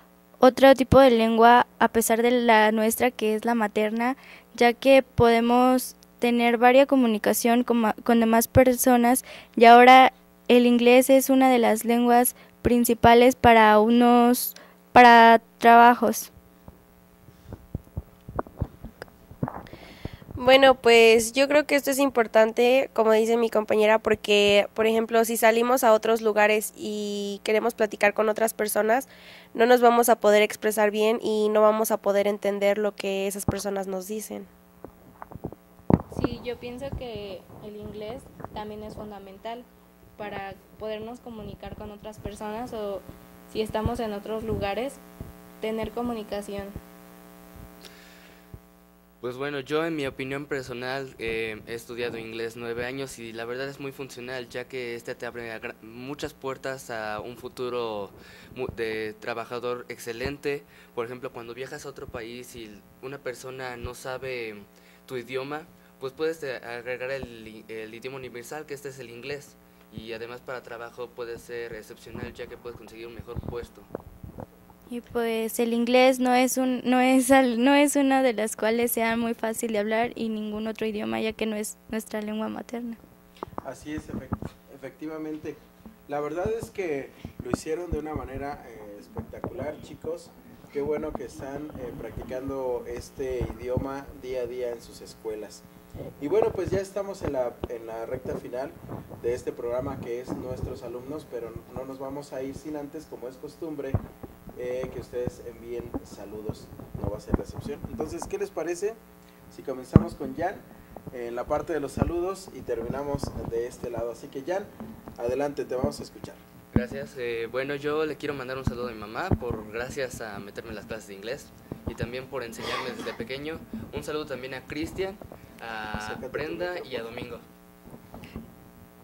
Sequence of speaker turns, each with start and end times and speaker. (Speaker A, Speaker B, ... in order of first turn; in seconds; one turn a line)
Speaker A: 0.4-16.3
Speaker B: 20.4-34.5
Speaker C: 36.1-45.0
Speaker C: 45.6-46.8
Speaker D: 49.2-73.9
Speaker A: 74.9-83.0
Speaker E: 83.6-95.7
Speaker E: 96.2-104.0
Speaker E: 104.6-109.0
Speaker E: 109.5-116.4
Speaker D: 116.7-127.5
Speaker E: 126.0-127.1